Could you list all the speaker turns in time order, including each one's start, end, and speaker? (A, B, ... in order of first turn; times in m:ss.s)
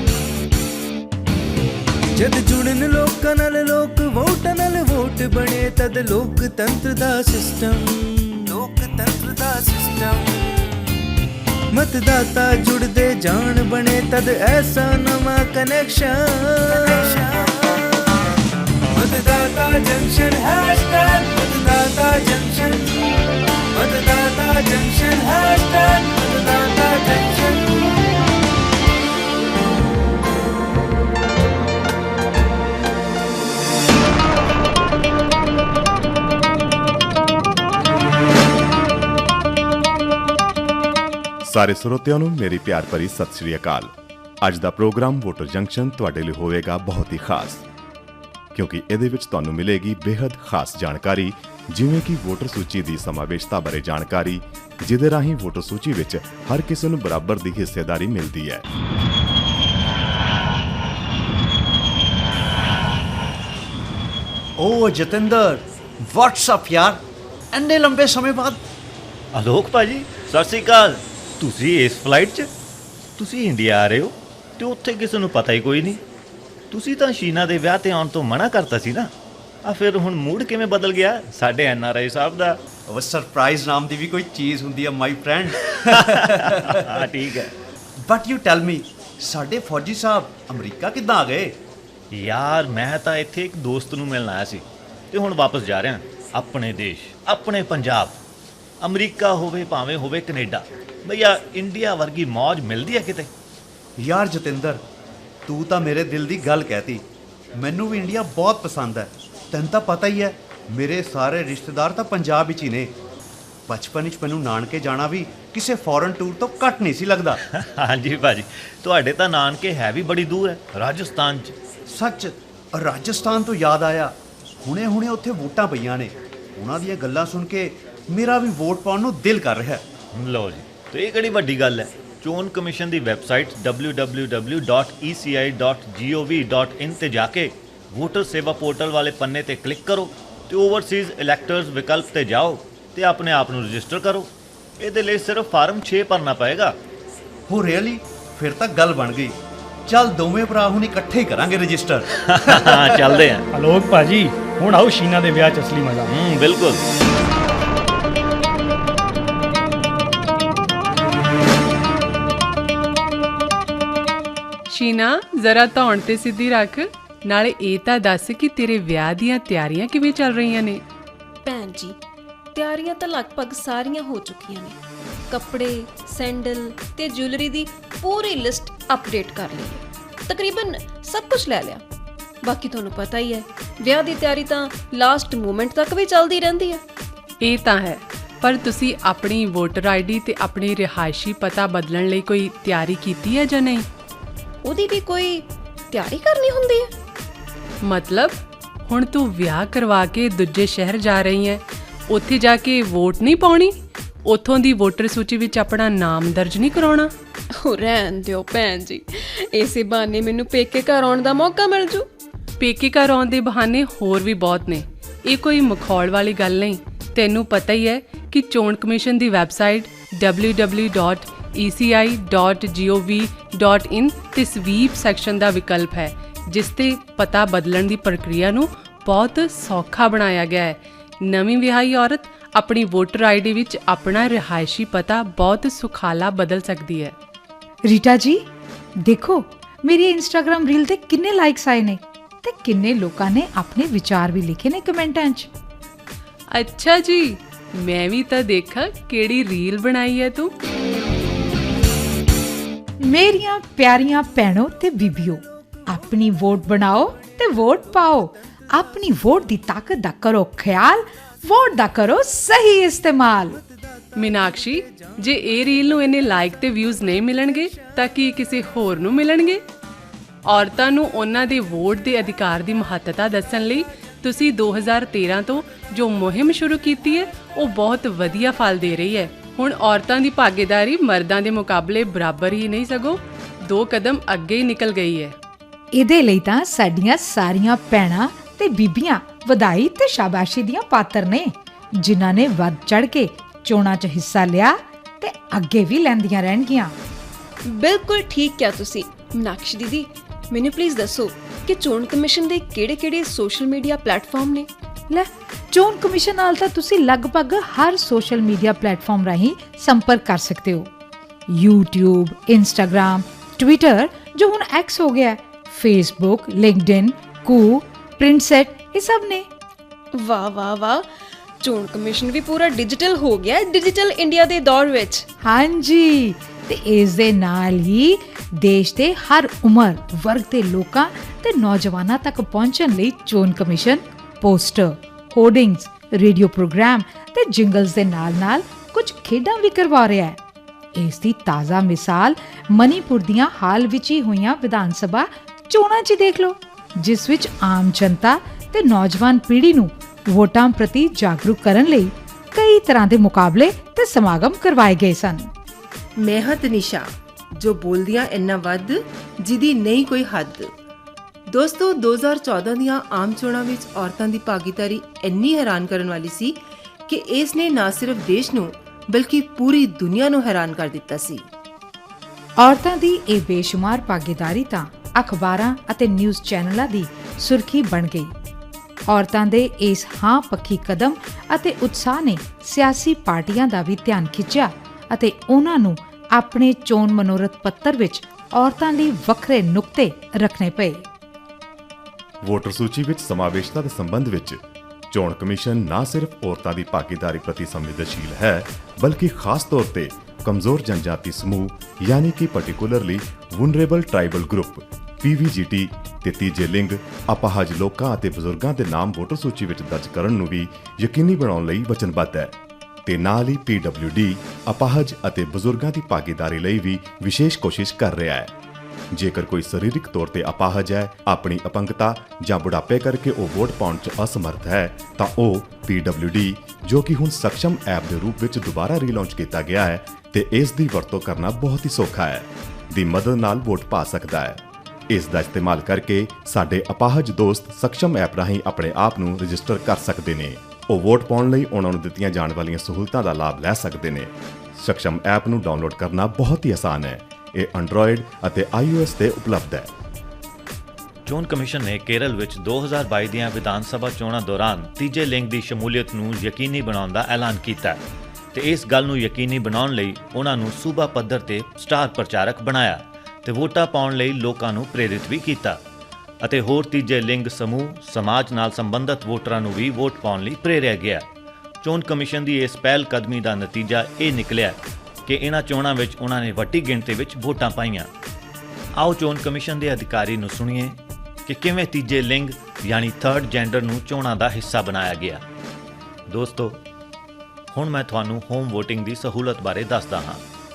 0:02.2-0:11.0 A
0:11.7-0:18.0 A
0:18.9-0:22.9 A
0:23.7-0:27.7 A
0:41.4-0:43.9 B
0:44.4-0:47.6 B
0:48.5-0:58.6 B
1:04.6-1:08.6 C
1:09.3-1:12.5 D
1:13.2-1:16.0 D
1:16.7-1:19.1 D
1:19.6-1:22.6 D
1:22.9-1:26.8 C
1:26.0-1:27.6 D
1:28.0-1:31.6 C
1:32.1-1:38.2 D
1:38.8-1:43.3 D
1:44.0-1:44.8 C
1:45.4-1:47.0 C
1:47.6-1:52.9 C
1:53.7-1:57.4 C
1:57.5-2:01.5 D
2:01.9-2:09.8 C
2:10.1-2:26.8 D
2:27.5-2:33.2 C
2:32.3-2:33.4 D
2:33.5-2:36.1 E
2:36.1-2:36.8 D
2:44.7-2:50.8 F
2:51.4-2:51.9 G
2:52.5-2:54.8 G
2:55.3-3:01.8 G
3:02.4-3:06.8 G
3:07.4-3:13.8 F
3:14.6-3:16.9 G
3:17.8-3:23.7 F
3:24.2-3:27.1 F
3:27.6-3:32.0 G
3:32.6-3:57.1 F
3:57.8-3:58.5 H
3:59.0-4:05.5 H
4:06.5-4:10.5 F
4:13.0-4:23.6 H
4:24.2-4:29.6 F
4:30.4-4:45.3 F
4:45.9-4:56.9 H
4:57.7-5:04.7 G
5:05.1-5:10.9 H
5:11.5-5:19.5 H
5:20.2-5:21.0 G
5:21.6-5:25.2 G
5:25.4-5:40.4 H
5:40.9-5:55.5 H
5:56.2-6:00.7 I
6:01.5-6:11.5 I
6:12.6-6:18.3 H
6:19.1-6:31.1 H
6:32.4-6:34.6 B
6:35.1-6:52.5 B
6:53.0-6:58.5 B
6:59.1-7:29.9 B
7:31.2-7:38.0 D
7:38.5-7:45.8 D
7:46.4-7:51.2 D
7:51.8-7:58.1 D
7:59.0-8:05.4 D
8:06.3-8:06.8 D
8:07.7-8:10.4 D